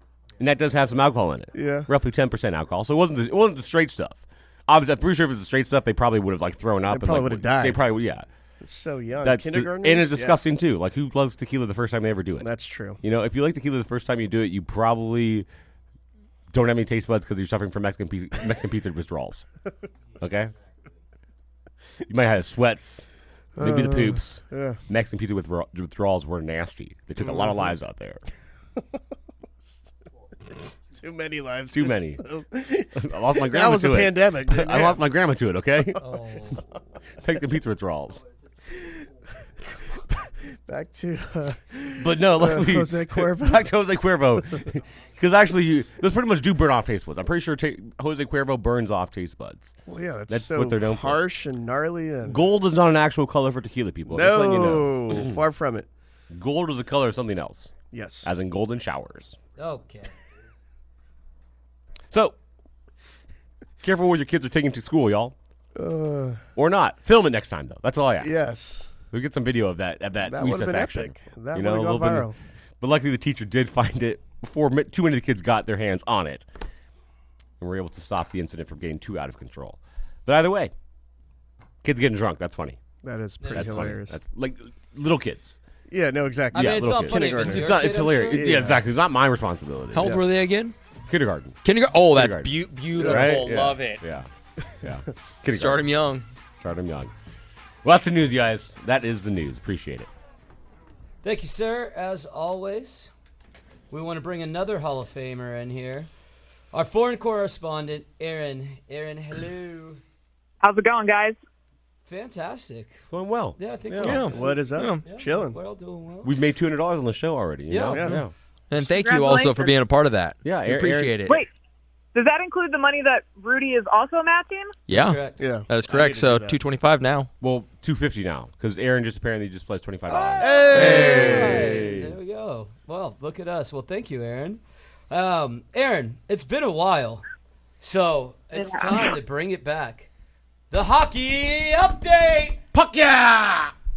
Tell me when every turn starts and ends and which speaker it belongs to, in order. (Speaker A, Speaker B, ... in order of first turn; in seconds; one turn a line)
Speaker A: 0.4-8.3
Speaker B: 1.5-1.9
Speaker B: 6.9-7.8
Speaker B: 8.6-10.4
Speaker A: 9.2-12.5
Speaker B: 12.4-13.0
Speaker A: 13.0-15.5
Speaker A: 16.5-19.4
Speaker A: 20.2-20.6
Speaker A: 22.1-23.1
Speaker B: 23.6-24.8
Speaker A: 23.6-28.2
Speaker B: 27.2-27.7
Speaker B: 30.5-35.0
Speaker A: 31.7-32.2
Speaker A: 32.9-36.0
Speaker C: 36.0-36.6
Speaker A: 37.2-38.2
Speaker B: 40.7-43.7
Speaker A: 42.0-49.8
Speaker B: 49.9-52.4
Speaker A: 50.3-51.2
Speaker A: 52.2-55.4
Speaker B: 54.1-55.9
Speaker A: 56.3-59.4
Speaker B: 57.9-58.3
Speaker C: 59.6-60.1
Speaker A: 63.8-65.3
Speaker B: 65.7-66.4
Speaker A: 66.5-68.4
Speaker B: 68.2-68.9
Speaker A: 69.1-72.3
Speaker B: 70.2-72.3
Speaker A: 72.8-76.5
Speaker A: 77.6-80.7
Speaker A: 81.8-82.8
Speaker B: 83.0-84.2
Speaker C: 83.4-83.9
Speaker A: 83.5-85.6
Speaker B: 85.9-88.8
Speaker C: 86.5-88.6
Speaker A: 86.5-90.2
Speaker D: 89.9-90.7
Speaker B: 90.0-90.4
Speaker A: 91.1-94.3
Speaker D: 91.6-94.0
Speaker B: 93.0-93.4
Speaker A: 94.8-95.9
Speaker D: 95.5-96.2
Speaker A: 96.6-97.1
Speaker A: 97.8-100.1
Speaker C: 101.2-103.1
Speaker C: 103.9-106.1
Speaker C: 106.7-110.0
Speaker E: 110.6-111.4
Speaker C: 112.0-113.0
Speaker A: 113.1-114.3
Speaker C: 113.6-116.3
Speaker D: 114.0-115.0
Speaker B: 114.0-115.6
Speaker A: 116.2-118.3
Speaker C: 117.7-118.2
Speaker B: 117.9-118.2
Speaker D: 118.7-121.4
Speaker E: 118.8-119.7
Speaker A: 120.4-121.2
Speaker E: 122.1-124.7
Speaker D: 124.9-127.3
Speaker C: 124.9-125.4
Speaker B: 125.4-126.6
Speaker A: 127.4-132.1
Speaker C: 130.1-137.2
Speaker B: 130.4-131.9
Speaker D: 130.7-131.2
Speaker C: 137.8-140.1
Speaker E: 138.6-139.1
Speaker C: 140.7-142.6
Speaker A: 142.7-143.7